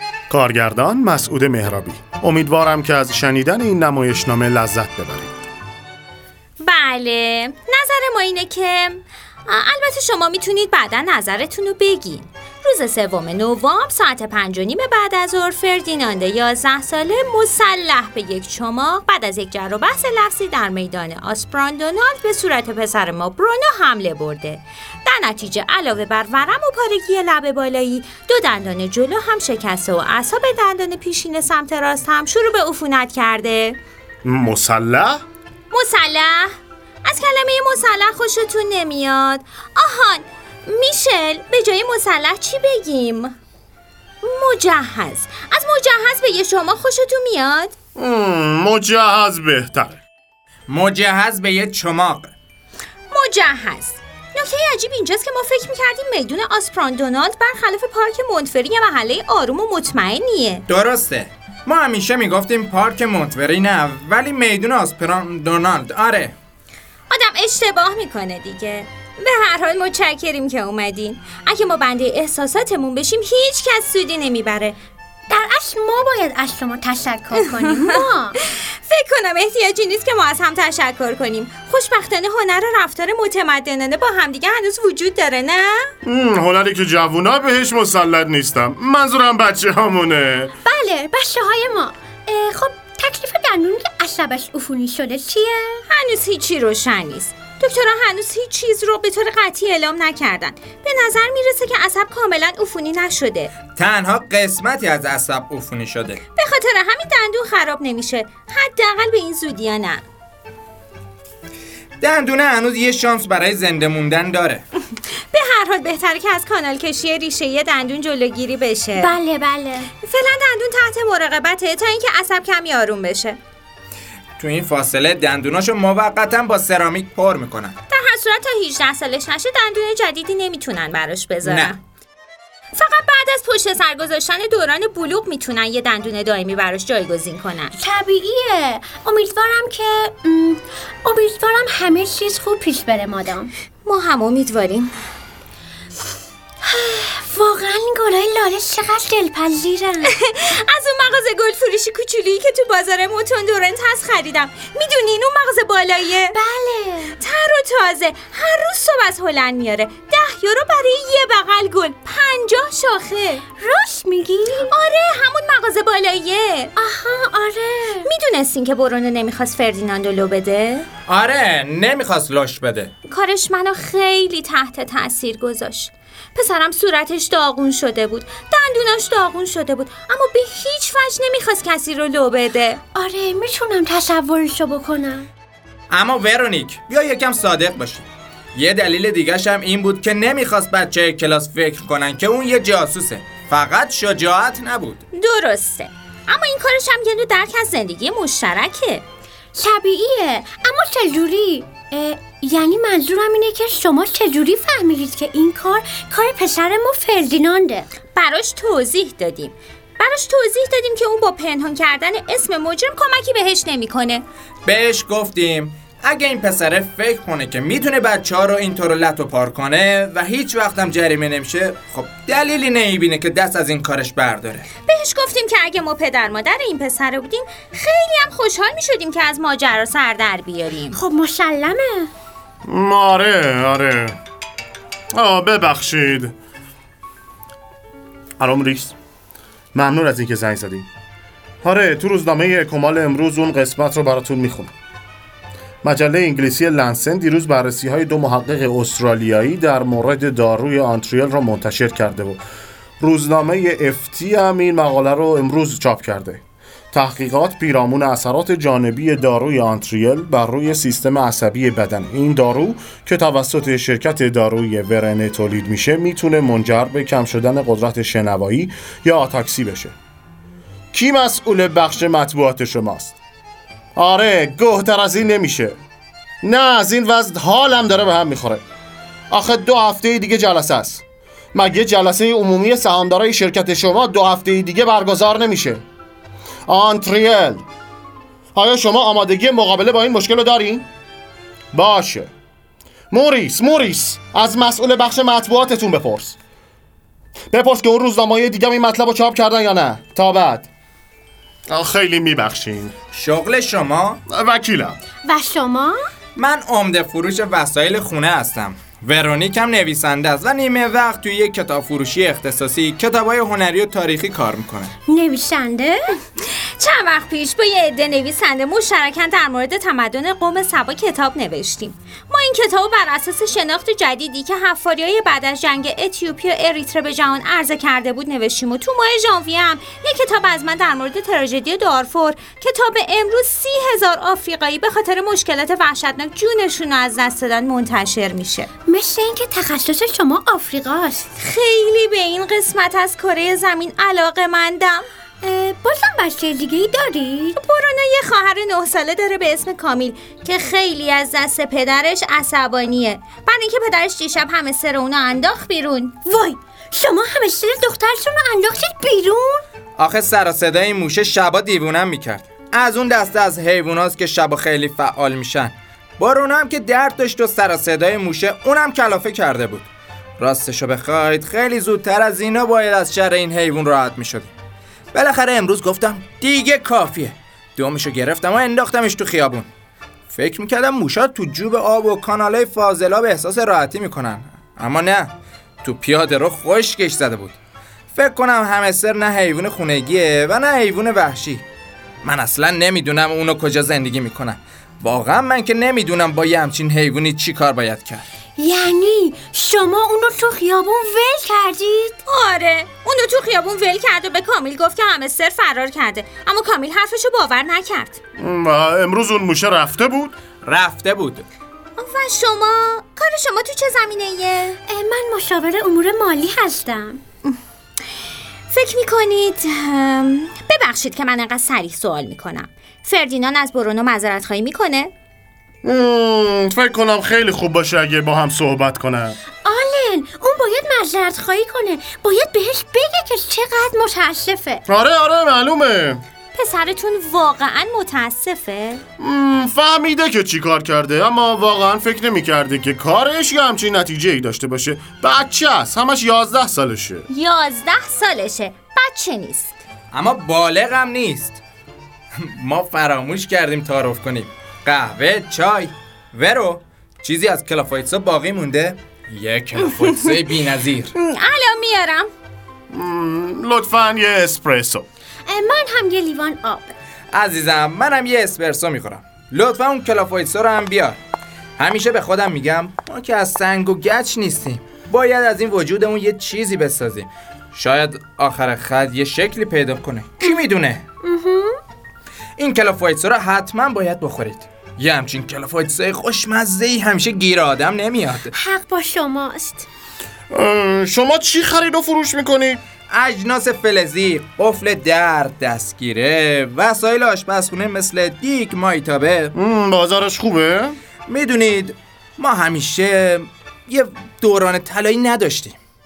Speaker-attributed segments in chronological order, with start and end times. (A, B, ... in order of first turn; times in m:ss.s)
0:00.3-0:05.3 A
0:06.6-0:33.8 B
0:34.2-0:35.2 A
0:35.7-0:43.4 B
0:44.2-0:47.8 B
0:48.0-0:50.0 A
0:50.7-0:52.3 C
0:53.1-1:00.6 B
1:00.7-1:06.4 C
1:07.1-1:14.8 B
1:15.3-1:18.4 D
1:17.4-1:25.9 B
1:26.0-1:30.5 A
1:30.6-1:35.8 D
1:35.9-1:43.5 B
1:43.7-1:46.2 C
1:46.4-1:50.0 B
1:52.0-1:54.6 C
1:55.3-1:59.2 B
1:59.0-1:59.9 D
2:00.0-2:03.4 B
2:04.4-2:07.8 C
2:07.9-2:11.8 B
2:11.4-2:11.7 C
2:12.8-2:17.7 B
2:17.8-2:23.5 D
2:23.8-2:25.0 B
2:26.6-2:30.2 D
2:30.0-2:36.4 B
2:36.3-2:37.2 D
2:37.2-2:43.4 B
2:43.6-2:44.7 D
2:44.6-2:46.7 B
2:46.8-2:48.1 D
2:48.0-2:50.9 B
2:51.1-2:52.9 C
2:53.1-3:02.8 B
3:03.0-3:05.3 D
3:05.9-3:15.0 C
3:15.1-3:19.0 B
3:19.6-3:27.9 D
3:28.2-3:34.2 B
3:34.6-3:44.7 C
3:44.9-3:51.0 B
3:50.9-3:52.1 D
3:52.7-3:54.2 A
3:55.1-3:56.4 A
3:58.4-3:58.9 A
3:59.7-4:00.9 A
4:01.6-4:04.7 A
4:05.8-4:12.4 A
4:13.0-4:16.4 A
4:16.9-4:29.9 A
4:30.9-4:33.2 A
4:34.0-4:35.8 A
4:36.4-4:38.6 A
4:39.3-4:41.0 A
4:41.5-4:45.8 A
4:46.7-4:47.6 A
4:48.6-4:50.9 A
4:51.7-4:52.3 A
4:53.1-4:56.4 A
4:57.5-5:00.7 A
5:01.7-5:02.9 A
5:03.1-5:04.2 C
5:04.3-5:05.0 A
5:05.2-5:06.0 D
5:06.4-5:14.9 C
5:15.1-5:16.2 D
5:16.8-5:38.7 B
5:38.9-5:41.3 D
5:41.4-5:45.1 B
5:45.4-5:47.6 D
5:47.6-5:56.2 B
5:56.2-5:59.6 D
6:00.0-6:14.5 C
6:15.1-6:19.7 C
6:20.3-6:27.6 C
6:28.2-6:31.6 C
6:32.2-6:38.3 C
6:38.6-6:42.2 D
6:42.3-6:48.2 B
6:48.4-6:50.4 A
6:50.6-6:51.4 C
6:52.0-6:54.8 B
6:54.9-6:57.2 D
6:58.7-7:05.1 B
7:05.8-7:09.4 A
7:09.6-7:14.8 D
7:14.9-7:16.2 A
7:16.5-7:19.0 B
7:19.2-7:27.3 A
7:27.3-7:29.7 B
7:30.1-7:31.6 C
7:32.4-7:41.1 C
7:41.2-7:42.3 B
7:42.9-7:45.1 A
7:45.5-7:46.9 D
7:47.3-7:51.2 C
7:51.8-8:01.0 C
8:01.2-8:01.8 D
8:02.6-8:08.5 C
8:08.5-8:09.9 D
8:10.5-8:12.8 A
8:13.1-8:19.5 C
8:19.5-8:21.0 A
8:21.3-8:25.8 C